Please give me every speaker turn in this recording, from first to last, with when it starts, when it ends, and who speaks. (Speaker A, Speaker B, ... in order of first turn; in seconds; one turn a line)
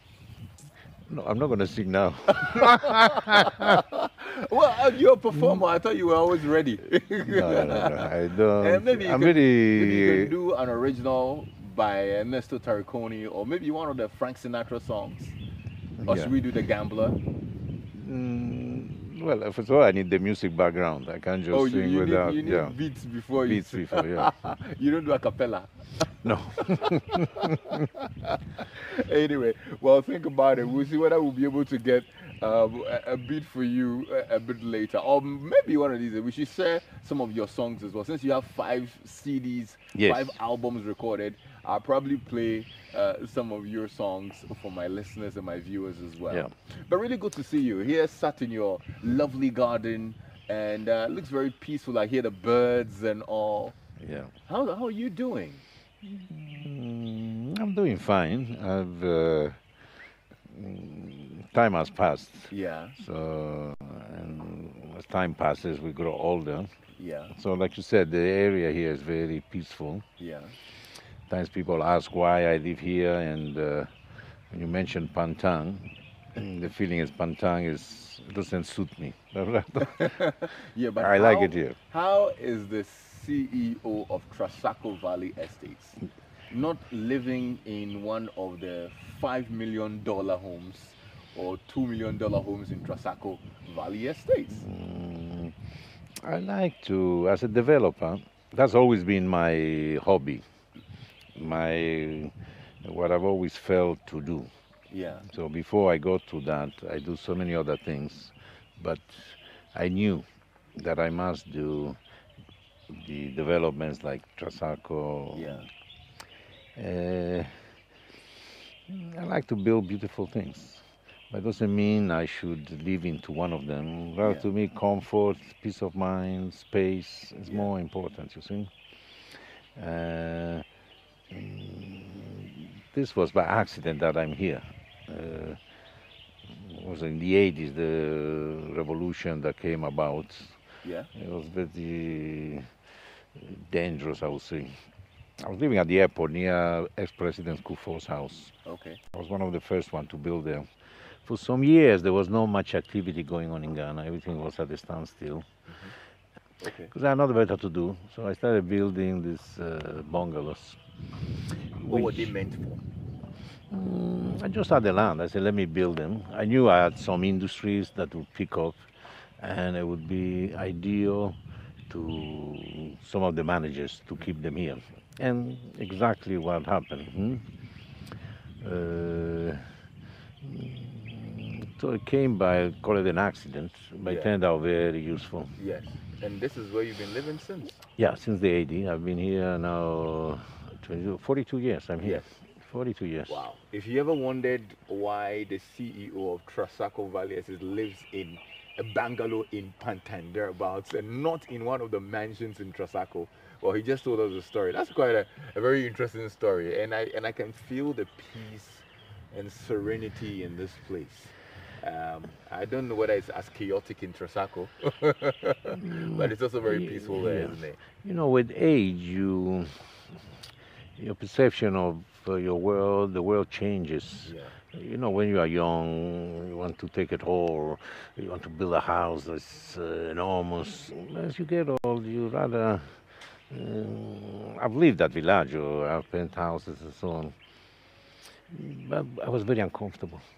Speaker A: 1.1-3.8
Speaker B: 2.4-15.3
Speaker A: 7.2-10.3
Speaker A: 16.0-16.3
Speaker B: 16.1-17.2
Speaker A: 17.9-22.8
Speaker B: 21.5-53.8
Speaker A: 23.4-24.3
Speaker A: 26.2-27.9
Speaker A: 40.0-40.4
Speaker A: 54.0-54.3
Speaker B: 54.5-55.6
Speaker A: 56.0-59.6
Speaker A: 60.5-66.7
Speaker B: 62.5-63.0
Speaker B: 67.0-67.3
Speaker A: 67.3-70.0
Speaker B: 70.2-70.6
Speaker A: 71.3-73.9
Speaker A: 74.5-80.3
Speaker B: 79.8-86.0
Speaker A: 81.0-81.8
Speaker B: 86.5-94.7
Speaker A: 94.6-95.6
Speaker A: 96.2-100.5
Speaker A: 101.3-104.5
Speaker B: 104.9-105.3
Speaker A: 105.3-112.0
Speaker A: 112.9-115.6
Speaker B: 115.3-115.7
Speaker A: 116.8-117.6
Speaker A: 118.9-128.7
Speaker A: 129.3-130.7
Speaker A: 131.3-135.6
Speaker A: 136.5-140.6
Speaker B: 140.8-141.1
Speaker A: 141.1-142.7
Speaker A: 143.4-144.8
Speaker A: 145.4-148.5
Speaker B: 148.7-149.0
Speaker A: 149.1-150.7
Speaker A: 151.2-155.5
Speaker B: 155.7-155.9
Speaker B: 156.6-156.9
Speaker A: 156.9-160.8
Speaker A: 161.8-162.3
Speaker B: 161.9-162.8
Speaker A: 163.7-168.8
Speaker A: 169.4-177.5
Speaker A: 178.6-179.7
Speaker A: 180.4-185.5
Speaker B: 184.0-184.3
Speaker B: 185.6-187.8
Speaker A: 188.0-193.4
Speaker B: 192.0-192.3
Speaker B: 193.3-217.8
Speaker A: 215.8-220.0
Speaker A: 221.0-237.4
Speaker B: 224.2-224.6
Speaker A: 238.5-240.2